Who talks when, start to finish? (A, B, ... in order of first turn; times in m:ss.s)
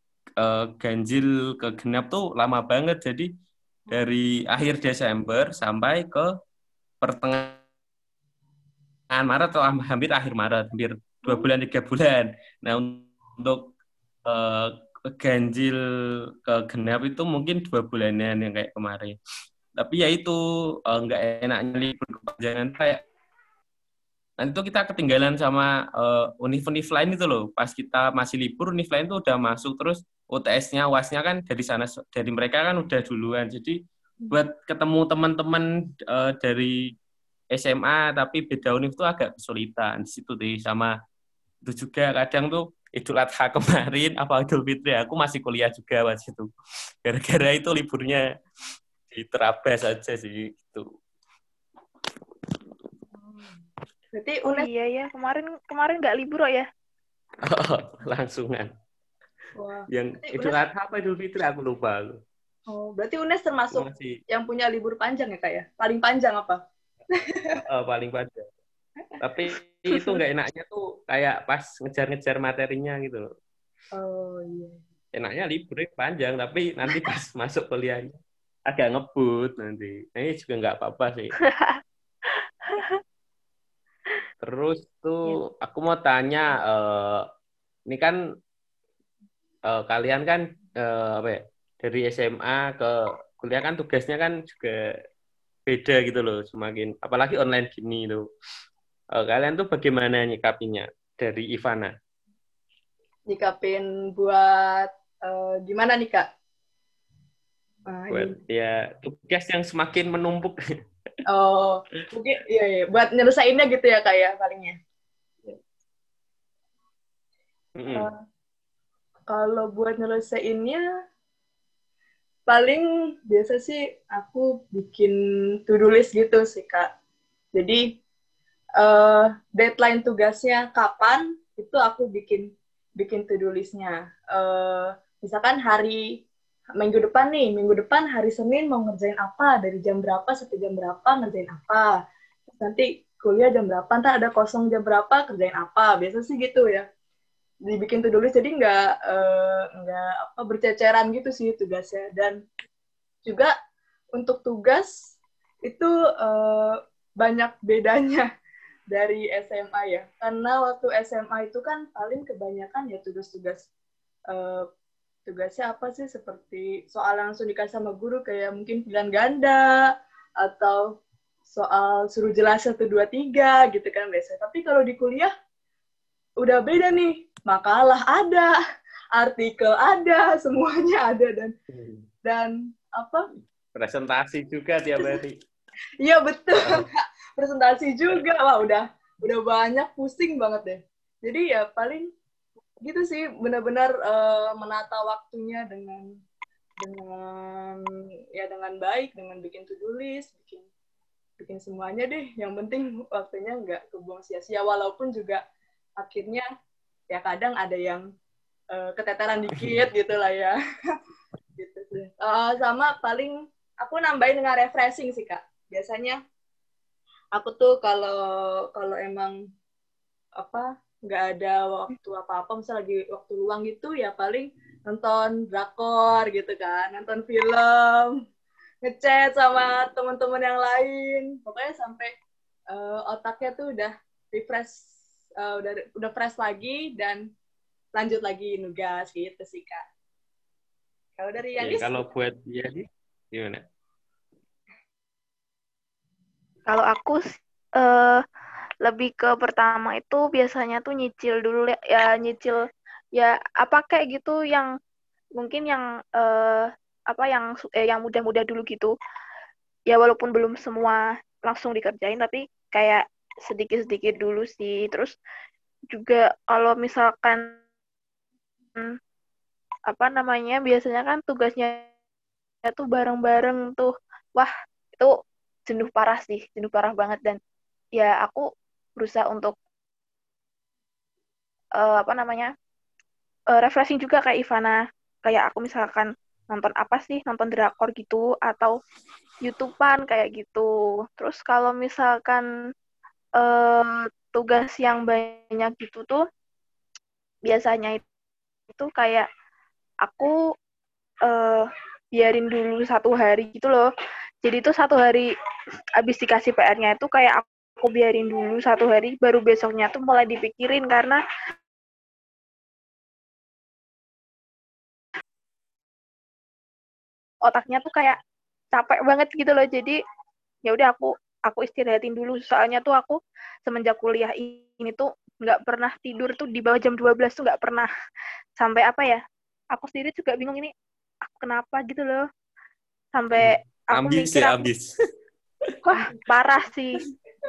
0:00.4-0:03.3 A
0:03.9-0:06.3 A
0:07.0-0:07.6 A
0:09.1-0:13.7 A
0:14.2-0:15.8 A
0:16.4-0:19.2 A
0:19.8-0:23.0 A
0:24.4-0:33.8 A
0:34.3-0:36.9 A
0:37.5-0:40.9 A
0:41.6-0:46.5 A
0:47.0-0:48.2 A
0:49.1-0:50.8 A
0:53.1-0:53.6 B
0:54.1-0:54.7 B
0:54.4-0:56.7 C
0:57.4-0:58.7 A
0:59.6-1:00.6 B
0:59.9-1:02.2 A
1:02.7-1:06.6 B
1:03.7-1:04.2 A
1:07.1-1:07.6 B
1:07.6-1:08.5 A
1:09.2-1:13.3 A
1:13.9-1:14.8 B
1:15.1-1:21.3 A
1:21.4-1:21.8 C
1:22.7-1:23.0 C
1:24.4-1:27.3 A
1:27.9-1:28.2 A
1:29.7-1:34.9 A
1:35.6-1:38.3 A
1:39.1-1:41.9 A
1:43.3-1:46.3 B
1:47.9-1:48.4 B
1:48.1-1:50.6 A
1:51.3-1:54.8 B
1:57.8-1:58.1 A
1:59.3-2:00.8 B
2:02.5-2:06.9 B
2:07.5-2:08.0 B
2:08.8-2:16.0 B
2:16.8-2:21.9 B
2:22.5-2:26.9 B
2:27.6-2:32.4 B
2:33.2-2:33.5 B
2:34.2-2:35.1 B
2:35.6-2:38.3 B
2:38.9-2:43.7 B
2:44.3-2:44.7 B
2:45.2-2:49.8 B
2:50.4-2:50.9 B
2:51.5-2:55.3 B
2:56.4-2:58.5 B
2:59.1-3:01.5 B
3:01.7-3:02.0 A
3:02.2-3:03.3 B
3:03.7-3:05.3 A
3:06.0-3:12.1 B
3:06.6-3:06.9 A
3:12.8-3:16.1 B
3:16.8-3:20.7 B
3:21.4-3:25.4 B
3:26.0-3:26.4 B
3:27.1-3:28.1 B
3:28.7-3:31.0 B
3:29.6-3:29.8 A
3:31.6-3:36.2 B
3:37.3-3:39.4 B
3:40.4-3:48.2 B
3:48.8-3:52.1 B
3:52.7-3:54.8 B
3:55.4-3:57.2 B
3:57.9-3:59.8 B
4:01.2-4:02.0 B
4:01.6-4:03.6 A
4:06.7-4:07.2 C
4:07.8-4:08.2 C
4:08.8-4:12.6 C
4:13.2-4:14.7 C
4:15.4-4:18.9 C
4:19.9-4:25.1 C
4:25.9-4:27.6 C
4:29.9-4:31.9 C
4:32.6-4:35.1 C
4:35.7-4:37.4 C
4:38.0-4:38.4 C
4:39.0-4:39.5 C
4:41.8-4:42.5 C
4:43.5-4:48.7 C
4:49.4-4:52.4 C
4:53.4-4:56.2 C
4:57.5-4:58.0 C
4:58.7-4:59.3 C
5:00.0-5:00.3 C
5:01.3-5:03.8 C
5:04.4-5:05.3 C
5:06.0-5:11.2 C
5:17.5-5:18.2 C
5:18.8-5:20.0 C
5:20.7-5:27.9 C
5:28.6-5:29.2 C
5:29.7-5:30.7 C
5:31.3-5:32.2 C
5:33.2-5:34.6 C
5:33.4-5:34.9 A
5:35.8-5:37.0 C